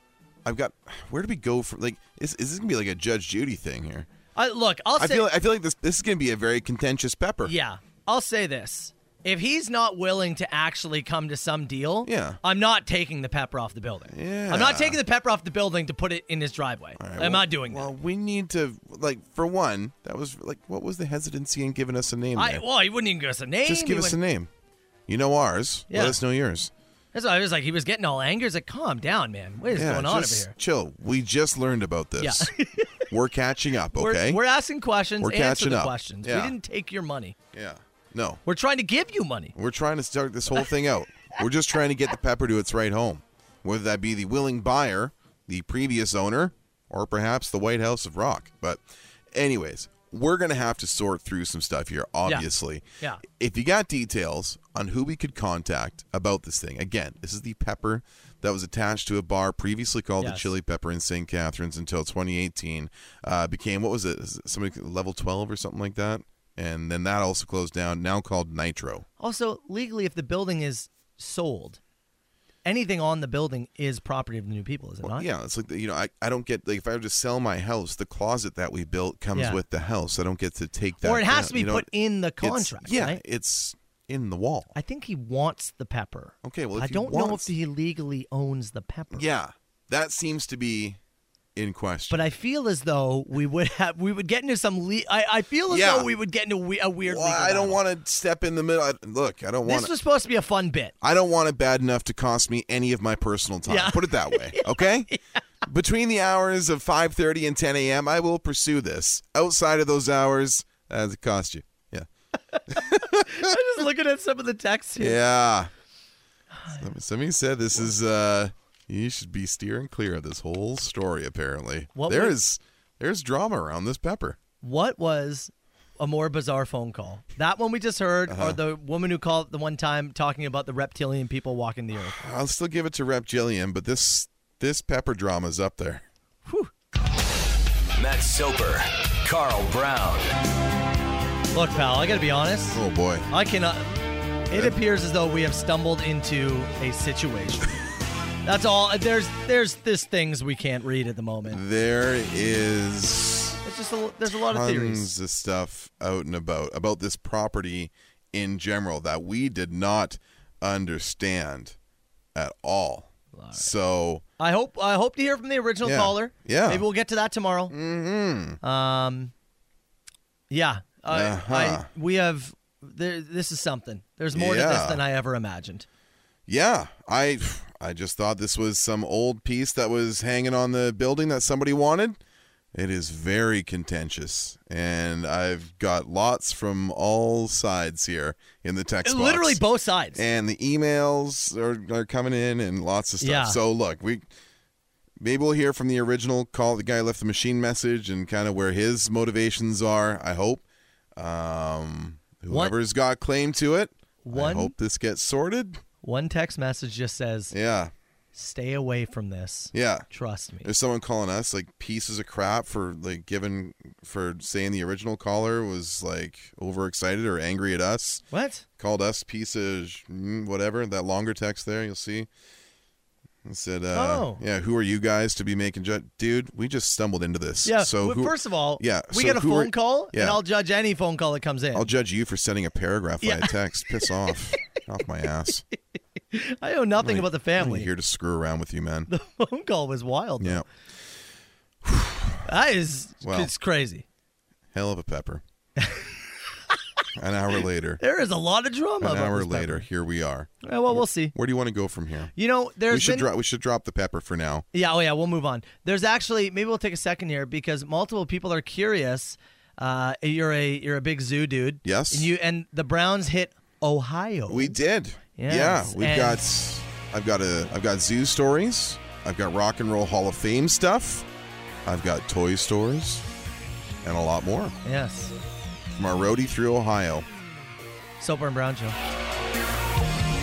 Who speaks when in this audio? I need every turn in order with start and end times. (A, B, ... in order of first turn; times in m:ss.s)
0:00.4-0:04.1 A
0:04.4-0:05.3 B
0:05.0-0:07.5 A
0:07.4-0:17.9 B
0:12.0-0:12.4 A
0:14.1-0:15.0 A
0:17.0-0:22.6 A
0:22.4-0:24.2 B
0:23.6-0:24.5 A
0:25.1-0:26.7 A
0:25.9-0:26.2 B
0:27.1-0:30.5 B
0:29.7-0:34.4 A
0:32.2-0:33.0 B
0:33.9-0:37.3 B
0:35.2-0:36.5 A
0:37.5-0:38.4 A
0:38.4-0:39.5 B
0:39.5-1:09.0 A
1:00.2-1:00.5 B
1:09.2-1:11.8 B
1:12.6-1:15.2 B
1:15.0-1:24.7 A
1:19.3-1:19.6 B
1:21.0-1:23.2 B
1:24.7-1:29.2 B
1:26.4-1:27.5 A
1:29.1-1:31.0 A
1:31.6-1:32.3 A
1:32.1-1:37.8 B
1:35.7-1:36.1 A
1:37.0-1:39.9 A
1:39.6-1:40.9 B
1:41.0-1:45.1 A
1:43.7-1:45.2 B
1:45.6-1:52.1 A
1:52.5-1:55.2 B
1:52.7-1:53.5 A
1:55.0-1:55.7 A
1:56.5-1:56.8 B
1:56.7-2:04.4 A
2:01.9-2:02.4 B
2:04.6-2:12.2 B
2:08.3-2:08.6 A
2:12.1-2:16.0 A
2:16.4-2:16.7 B
2:18.0-2:20.3 C
2:21.5-2:23.9 B
2:22.7-2:23.3 A
2:24.5-2:27.7 B
2:28.4-2:31.6 B
2:31.5-2:33.6 A
2:33.6-2:35.1 B
2:34.3-2:41.8 A
2:42.3-2:44.2 A
2:43.3-2:43.7 B
2:44.4-2:47.7 B
2:45.8-2:46.8 A
2:47.7-2:48.6 A
2:48.6-2:49.3 B
2:50.5-2:55.8 B
2:51.1-2:51.9 A
2:54.3-2:55.0 A
2:56.5-3:02.2 A
3:02.7-3:09.6 A
3:09.0-3:10.2 B
3:10.1-3:14.3 A
3:13.2-3:13.6 B
3:15.2-3:20.6 A
3:21.2-3:25.8 A
3:22.5-3:22.7 B
3:24.2-3:24.7 B
3:26.0-3:27.5 B
3:27.5-3:27.9 A
3:28.3-3:30.7 B
3:29.7-3:30.1 A
3:30.6-3:38.2 A
3:38.3-3:38.6 B
3:38.8-3:42.3 A
3:43.4-3:50.4 A
3:43.9-3:44.4 B
3:47.6-3:51.9 B
3:51.7-3:55.6 A
3:53.2-3:54.1 B
3:56.3-3:57.9 B
3:57.0-3:59.1 A
3:59.1-4:00.6 B
4:00.4-4:00.6 A
4:01.8-4:02.4 A
4:02.4-4:04.0 B
4:03.2-4:03.5 A
4:04.7-4:05.4 A
4:05.8-4:06.2 B
4:07.1-4:08.0 A
4:08.0-4:09.9 B
4:09.0-4:12.3 A
4:10.6-4:11.3 B
4:12.4-4:13.3 B
4:12.9-4:14.6 A
4:14.7-4:24.8 B
4:21.8-4:22.3 A
4:24.5-4:31.3 A
4:25.4-4:26.4 B
4:31.8-4:33.2 A
4:34.0-4:34.8 A
4:34.8-4:35.3 B
4:36.0-4:37.3 A
4:38.2-4:39.0 B